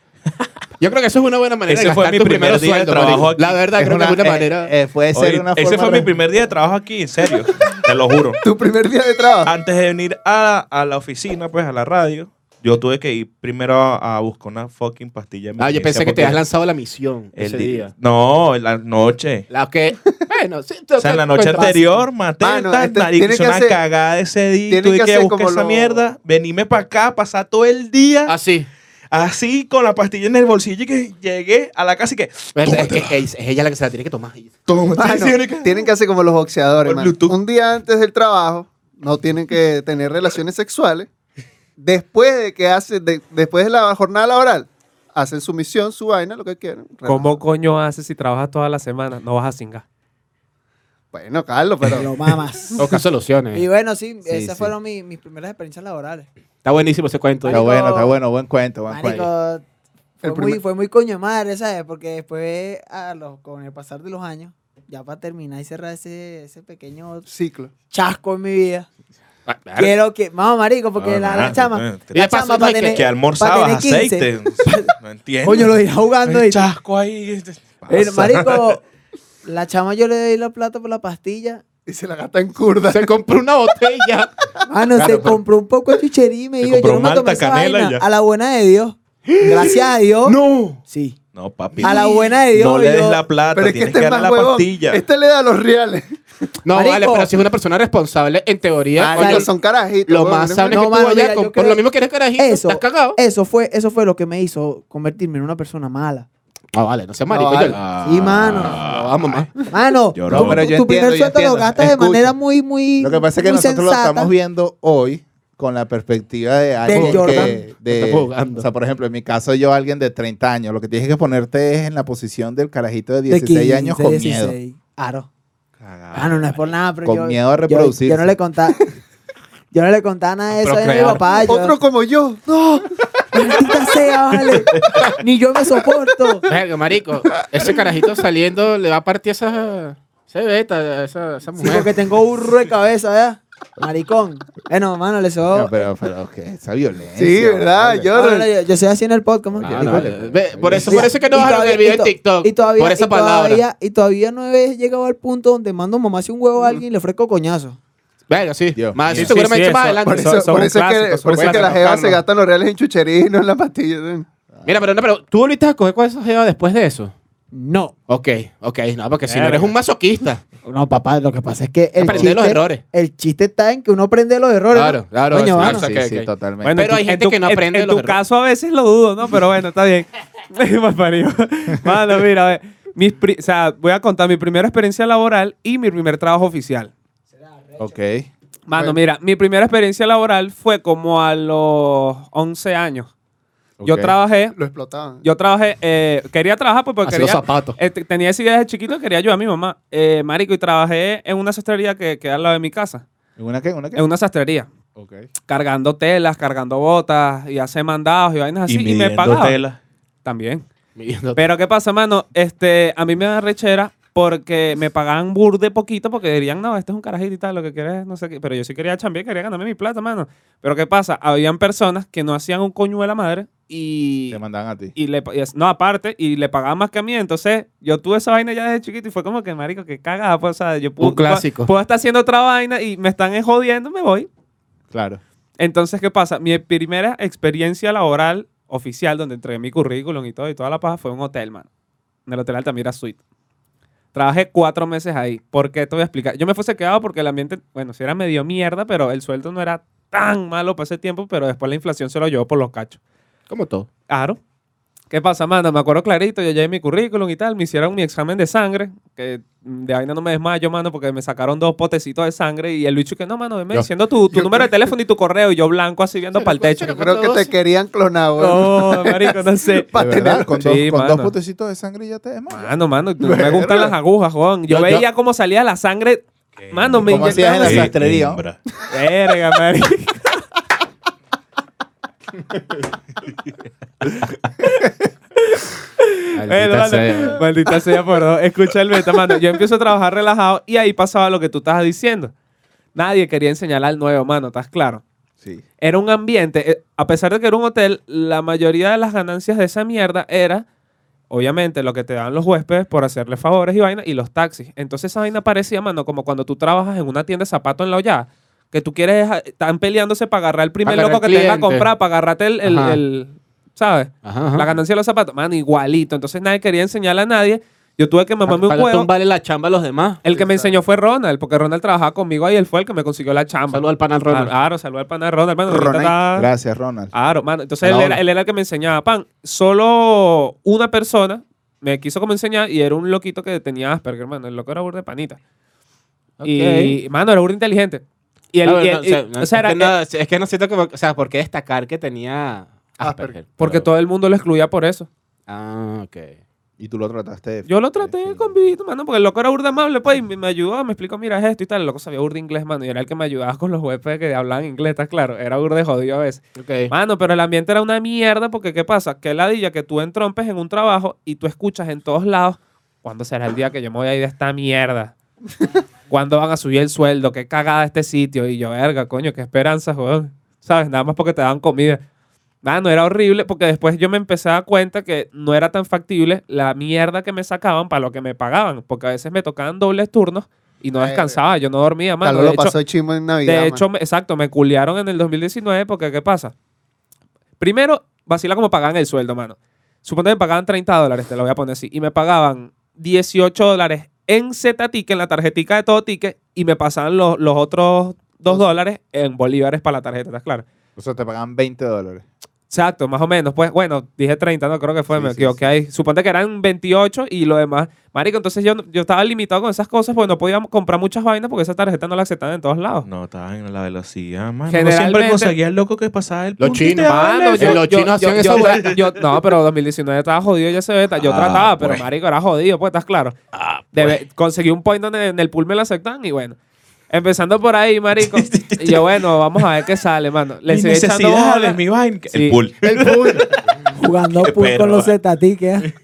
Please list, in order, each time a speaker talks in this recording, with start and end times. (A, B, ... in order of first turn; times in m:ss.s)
0:00.8-0:04.7 A
0:01.7-0:03.6 B
0:03.8-0:06.1 C
0:05.1-0:08.4 B
0:08.4-0:09.5 D
0:09.4-0:16.4 B
0:15.6-0:17.9 A
0:17.3-0:19.4 B
0:19.5-0:22.0 A
0:21.0-0:28.3 B
0:22.4-0:23.8 D
0:24.7-0:26.1 D
0:28.3-0:28.7 A
0:29.1-0:33.1 B
0:32.5-0:34.5 A
0:34.7-0:35.9 B
0:35.0-0:41.1 D
0:36.8-0:37.4 B
0:41.8-0:47.4 D
0:47.0-0:49.8 E
0:51.1-0:52.8 D
0:51.9-0:52.9 F
0:52.8-0:53.6 A
0:53.5-0:56.3 F
0:54.3-0:54.7 C
0:56.6-0:57.7 A
0:57.4-0:58.1 F
0:57.5-0:59.3 C
0:58.9-0:59.6 F
1:00.2-1:00.6 D
1:00.2-1:07.2 F
1:07.2-1:07.7 D
1:07.9-1:08.9 F
1:09.5-1:09.9 A
1:09.8-1:16.6 F
1:11.0-1:18.6 B
1:12.1-1:13.0 A
1:17.9-1:18.8 F
1:19.4-1:21.6 F
1:21.9-1:23.1 D
1:22.9-1:24.3 A
1:24.7-1:31.2 F
1:25.0-1:25.4 A
1:26.6-1:28.0 B
1:29.3-1:30.8 A
1:31.3-1:35.0 B
1:31.8-1:33.2 F
1:33.5-1:36.2 D
1:36.6-1:39.5 A
1:36.7-1:37.4 F
1:39.0-1:40.8 D
1:39.1-1:39.5 F
1:40.0-1:43.2 A
1:40.7-1:46.3 F
1:46.7-1:47.8 A
1:47.3-1:47.9 D
1:47.7-1:49.2 B
1:48.0-1:48.8 F
1:48.7-1:49.5 A
1:49.7-1:54.3 F
1:50.1-1:50.8 B
1:50.3-1:52.3 C
1:53.0-2:04.6 C
1:56.8-1:57.6 F
1:56.9-1:58.7 A
2:03.3-2:05.3 F
2:05.8-2:06.6 B
2:06.1-2:08.8 F
2:07.0-2:08.4 C
2:09.7-2:11.8 F
2:10.6-2:11.2 A
2:11.4-2:12.8 D
2:13.3-2:16.4 F
2:14.5-2:15.1 B
2:16.4-2:21.9 A
2:21.6-2:25.8 F
2:25.5-2:28.1 C
2:27.2-2:28.5 D
2:28.1-2:30.1 F
2:29.6-2:31.5 C
2:29.7-2:33.6 A
2:30.8-2:37.8 F
2:38.3-2:40.4 A
2:38.7-2:39.3 C
2:39.1-2:42.2 E
2:40.0-2:44.3 D
2:41.3-2:42.0 C
2:44.5-2:44.8 C
2:44.6-2:47.1 A
2:47.5-2:47.9 F
2:48.1-2:50.4 A
2:49.2-2:49.7 E
2:50.6-2:55.8 F
2:52.0-2:52.3 D
2:52.0-2:52.8 A
2:54.7-2:58.2 A
2:55.6-2:56.9 C
2:56.6-3:06.9 E
3:07.4-3:07.9 F
3:07.8-3:08.3 C
3:08.7-3:13.1 E
3:13.8-3:14.1 C
3:13.8-3:14.6 E
3:14.5-3:15.2 D
3:15.2-3:23.0 E
3:17.0-3:17.8 A
3:23.4-3:24.0 C
3:23.9-3:24.7 E
3:25.0-3:25.3 C
3:25.5-3:29.6 E
3:28.7-3:29.8 B
3:30.2-3:30.6 E
3:31.0-3:31.4 A
3:31.4-3:44.4 E
3:44.3-3:44.9 C
3:45.0-3:54.3 E
3:51.0-3:51.7 A
3:54.9-3:55.2 C
3:55.6-4:01.7 E
4:02.3-4:03.2 E
4:04.1-4:13.0 E
4:13.5-4:13.9 A
4:14.1-4:14.4 E
4:15.1-4:26.9 E
4:24.3-4:24.7 D
4:26.3-4:27.5 A
4:26.9-4:30.5 D
4:28.4-4:31.3 E
4:29.9-4:33.9 C
4:32.5-4:37.9 E
4:34.7-4:35.0 C
4:36.6-4:38.6 B
4:37.0-4:38.4 C
4:38.9-4:40.4 E
4:44.6-4:52.3 E
4:46.3-4:47.4 A
4:52.9-4:55.0 E
4:55.8-5:00.6 E
5:01.3-5:19.1 E
5:10.8-5:11.9 A
5:12.6-5:13.0 A
5:14.2-5:14.7 A
5:18.4-5:20.3 A
5:20.2-5:26.5 E
5:23.7-5:24.5 A
5:26.3-5:27.1 C
5:27.1-5:35.4 E
5:27.8-5:28.2 A
5:36.4-5:37.0 A
5:36.4-5:39.9 E
5:38.6-5:43.9 A
5:43.0-5:43.4 D
5:43.6-5:45.1 E
5:45.5-5:46.4 A
5:46.8-5:48.5 C
5:47.7-6:05.1 E
5:56.6-5:56.9 A
6:06.1-6:12.0 E
6:12.6-6:22.7 E
6:21.0-6:21.4 D
6:22.2-6:23.8 D
6:23.4-6:26.5 E
6:27.6-6:40.6 E
6:41.0-6:42.2 C
6:42.7-6:53.0 E
6:45.1-6:45.7 C
6:53.0-6:57.8 B
6:54.7-6:55.5 E
6:56.6-6:58.9 A
6:57.0-7:03.4 E
6:58.4-6:59.1 B
7:01.2-7:02.0 B
7:03.5-7:04.2 B
7:03.9-7:06.6 E
7:07.1-7:11.8 E
7:08.2-7:09.1 B
7:10.7-7:13.7 B
7:12.3-7:12.6 E
7:12.9-7:13.4 D
7:13.9-7:15.9 F
7:14.3-7:15.1 B